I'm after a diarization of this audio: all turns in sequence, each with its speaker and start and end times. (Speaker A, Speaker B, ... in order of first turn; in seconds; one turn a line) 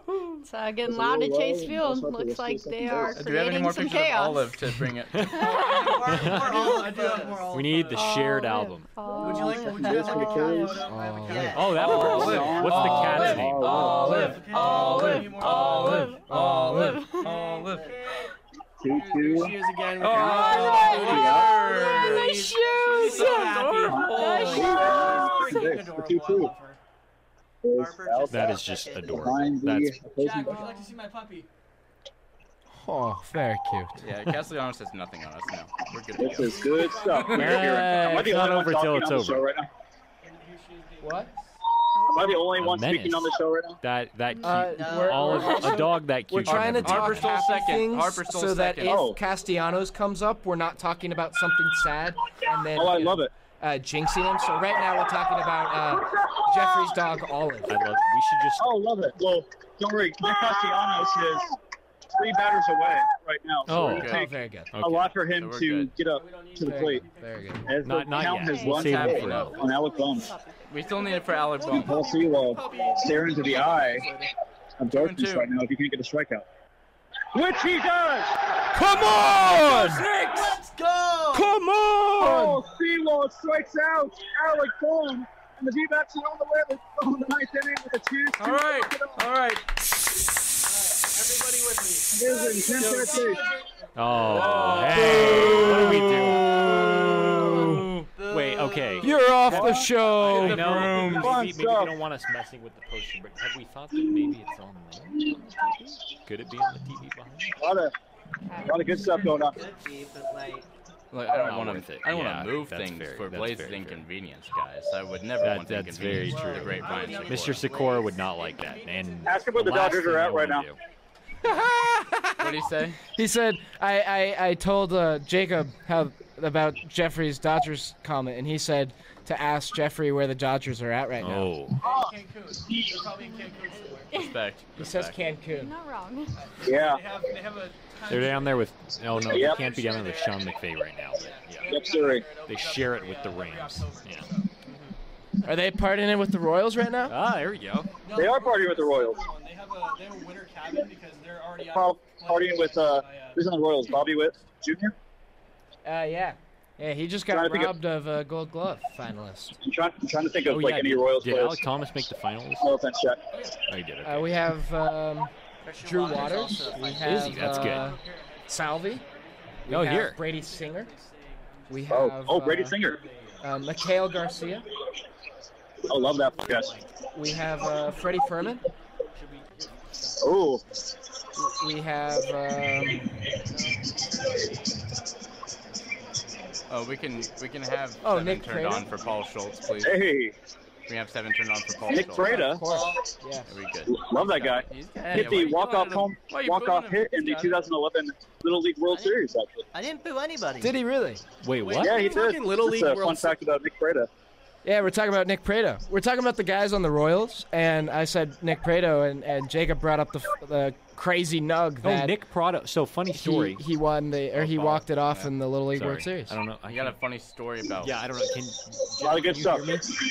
Speaker A: 0.3-4.5
Speaker B: 0.9-3.2
Speaker C: 3.2-5.6
Speaker D: 5.1-5.5
Speaker A: 5.3-6.2
Speaker E: 5.3-8.1
Speaker F: 5.6-8.0
Speaker D: 6.1-6.5
Speaker D: 7.5-9.0
Speaker A: 7.9-10.0
Speaker F: 9.2-12.4
Speaker E: 9.2-12.7
Speaker B: 9.6-10.8
Speaker G: 10.9-11.7
Speaker D: 11.5-13.8
Speaker B: 11.8-14.4
Speaker C: 11.8-18.0
Speaker A: 11.8-12.4
Speaker E: 13.2-16.2
Speaker G: 13.8-17.1
Speaker F: 14.4-15.7
Speaker A: 14.7-17.3
Speaker F: 17.2-18.3
Speaker B: 18.8-19.6
Speaker E: 18.9-26.8
Speaker C: 20.0-24.9
Speaker B: 20.5-21.5
Speaker F: 21.7-22.3
Speaker A: 22.1-25.6
Speaker B: 23.9-26.5
Speaker F: 24.6-25.3
Speaker B: 27.6-30.7
Speaker F: 27.7-29.5
Speaker D: 28.3-30.0
Speaker E: 30.1-31.5
Speaker A: 30.5-30.9
Speaker G: 32.7-34.0
Speaker C: 34.0-37.6
Speaker B: 36.2-39.7
Speaker E: 36.3-38.3
Speaker D: 37.3-39.5
Speaker E: 40.2-41.6
Speaker G: 41.0-41.3
Speaker A: 42.0-42.5
Speaker B: 42.0-43.8
Speaker D: 42.5-47.4
Speaker G: 44.4-57.8
Speaker F: 44.5-45.8
Speaker C: 46.5-49.1
Speaker B: 48.8-49.2
Speaker B: 52.7-53.3
Speaker D: 57.7-58.7
Speaker B: 58.6-61.6
Speaker B: 62.1-67.0
Speaker D: 63.7-64.2
Speaker C: 63.8-64.3
Speaker G: 64.0-64.7
Speaker D: 64.7-65.1
Speaker C: 65.2-65.9
Speaker E: 66.1-67.9
Speaker G: 66.6-67.7
Speaker B: 67.7-70.3
Speaker D: 67.8-69.6
Speaker A: 68.2-72.0
Speaker C: 68.7-69.7
Speaker C: 70.7-72.0
Speaker E: 71.6-74.3
Speaker B: 71.7-74.1
Speaker B: 74.8-76.5
Speaker C: 74.9-75.5
Speaker B: 77.3-78.3
Speaker C: 78.8-80.6
Speaker G: 78.9-80.0
Speaker F: 80.2-81.6
Speaker G: 81.4-82.6
Speaker B: 82.2-89.2
Speaker C: 88.4-89.7
Speaker E: 90.6-95.1
Speaker B: 92.1-93.5
Speaker D: 94.0-96.5
Speaker C: 94.2-98.1
Speaker B: 95.1-95.7
Speaker G: 95.3-97.9
Speaker F: 97.3-99.2
Speaker D: 98.2-107.6
Speaker G: 99.0-100.9
Speaker B: 99.5-102.0
Speaker C: 100.2-101.4
Speaker B: 107.6-107.9
Speaker A: 108.5-108.9
Speaker B: 108.6-109.6
Speaker F: 108.9-110.7
Speaker C: 111.1-117.7
Speaker D: 111.3-114.0
Speaker D: 115.4-120.8
Speaker F: 116.3-118.3
Speaker E: 116.3-119.9
Speaker B: 119.3-120.7
Speaker G: 121.4-122.6
Speaker C: 122.4-123.0
Speaker G: 123.1-131.5
Speaker D: 131.2-131.8
Speaker E: 131.8-134.3
Speaker B: 131.8-132.1
Speaker B: 132.7-133.0
Speaker A: 133.3-134.4
Speaker C: 134.1-135.2
Speaker G: 134.8-135.7
Speaker A: 135.5-136.3
Speaker E: 136.4-140.6
Speaker B: 136.6-137.1
Speaker D: 138.1-141.8
Speaker B: 139.2-139.6
Speaker E: 141.1-144.9
Speaker B: 141.7-142.3
Speaker D: 142.4-144.3
Speaker G: 145.4-147.2
Speaker D: 147.1-147.9
Speaker E: 148.0-154.2
Speaker B: 148.1-149.2
Speaker B: 151.6-154.9
Speaker G: 155.8-159.6
Speaker B: 157.3-157.7
Speaker B: 159.6-161.7
Speaker D: 160.5-162.7
Speaker B: 162.6-163.3
Speaker E: 163.3-163.6
Speaker D: 163.7-164.5
Speaker G: 164.0-165.3
Speaker F: 165.6-167.3
Speaker G: 165.8-169.0
Speaker D: 167.0-168.0
Speaker E: 167.2-172.0
Speaker G: 169.7-170.9
Speaker D: 169.7-170.2
Speaker G: 171.7-172.8
Speaker B: 171.9-173.0
Speaker E: 172.8-173.5
Speaker G: 173.4-174.7
Speaker B: 175.9-176.7
Speaker E: 175.9-176.8
Speaker G: 177.1-178.7
Speaker E: 177.9-178.3
Speaker E: 179.2-179.7
Speaker B: 180.2-180.6
Speaker G: 181.4-183.1
Speaker E: 183.6-184.6
Speaker C: 186.7-190.1
Speaker G: 188.0-188.9
Speaker B: 189.8-190.3
Speaker C: 190.9-192.5
Speaker B: 191.9-192.9
Speaker G: 192.0-193.5
Speaker C: 193.5-197.7
Speaker B: 193.9-199.7
Speaker F: 198.9-199.2
Speaker F: 199.7-200.8
Speaker G: 200.6-201.2
Speaker D: 201.4-202.2
Speaker E: 201.6-203.4
Speaker B: 201.8-204.1
Speaker G: 204.6-212.1
Speaker D: 211.8-213.6
Speaker G: 213.1-216.4
Speaker C: 214.3-215.3
Speaker D: 215.7-217.0
Speaker C: 216.7-217.9
Speaker D: 217.8-219.8
Speaker B: 219.0-219.8